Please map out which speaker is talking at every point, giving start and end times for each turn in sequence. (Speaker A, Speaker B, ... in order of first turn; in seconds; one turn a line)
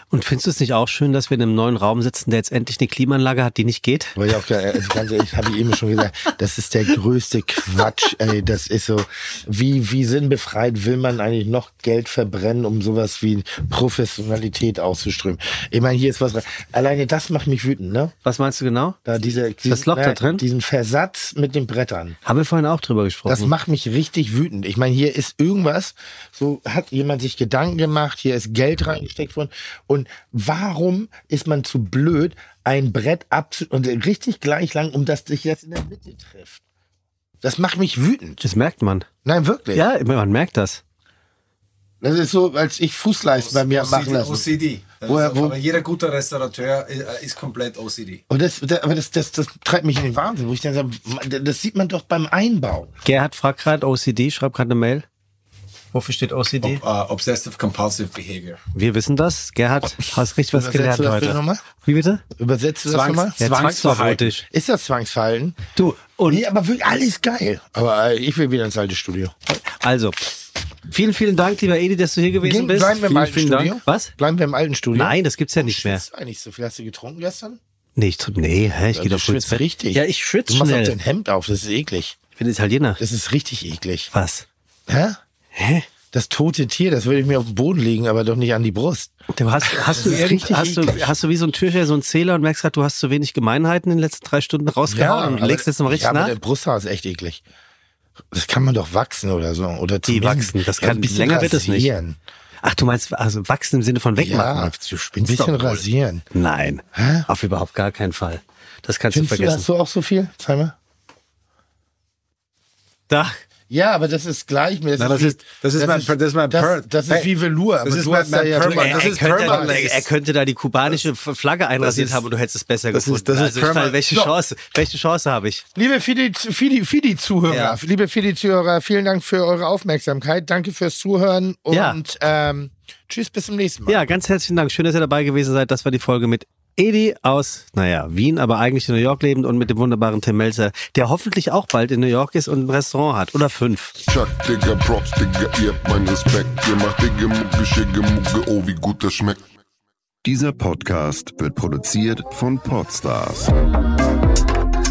Speaker A: 0.1-4.2
Speaker B: 4.2-18.1
Speaker A: 18.2-19.0
Speaker B: 19.0-22.2
Speaker A: 19.6-20.4
Speaker A: 22.2-23.5
Speaker B: 23.3-36.6
Speaker B: 37.4-38.4
Speaker A: 38.4-39.1
Speaker B: 39.2-39.8
Speaker A: 39.7-40.8
Speaker B: 42.0-44.5
Speaker C: 43.4-48.2
Speaker B: 45.0-45.6
Speaker B: 48.3-52.9
Speaker A: 53.0-55.0
Speaker A: 55.9-56.8
Speaker C: 56.6-58.6
Speaker A: 58.7-62.2
Speaker B: 60.5-61.6
Speaker B: 62.4-63.4
Speaker C: 62.9-64.3
Speaker A: 63.4-64.5
Speaker B: 64.5-65.6
Speaker A: 65.7-66.4
Speaker B: 66.3-69.3
Speaker A: 69.5-70.2
Speaker A: 70.9-74.1
Speaker B: 72.4-77.6
Speaker A: 74.9-76.0
Speaker A: 78.0-81.0
Speaker B: 79.0-82.2
Speaker A: 82.3-83.0
Speaker B: 83.0-84.1
Speaker A: 84.1-84.5
Speaker B: 84.9-85.2
Speaker A: 85.5-85.9
Speaker B: 86.1-89.1
Speaker A: 89.3-96.3
Speaker B: 89.7-91.1
Speaker B: 94.8-97.4
Speaker B: 98.3-102.2
Speaker A: 100.0-101.9
Speaker A: 102.6-109.7
Speaker B: 104.2-106.2
Speaker B: 106.9-107.3
Speaker B: 109.1-110.8
Speaker A: 113.1-113.4
Speaker B: 113.7-120.0
Speaker C: 115.0-117.3
Speaker C: 117.8-120.0
Speaker A: 118.6-125.6
Speaker C: 121.8-122.2
Speaker C: 122.9-124.0
Speaker B: 125.8-134.1
Speaker A: 127.5-127.8
Speaker A: 131.7-132.0
Speaker A: 133.9-143.9
Speaker D: 144.0-149.4
Speaker E: 150.2-153.5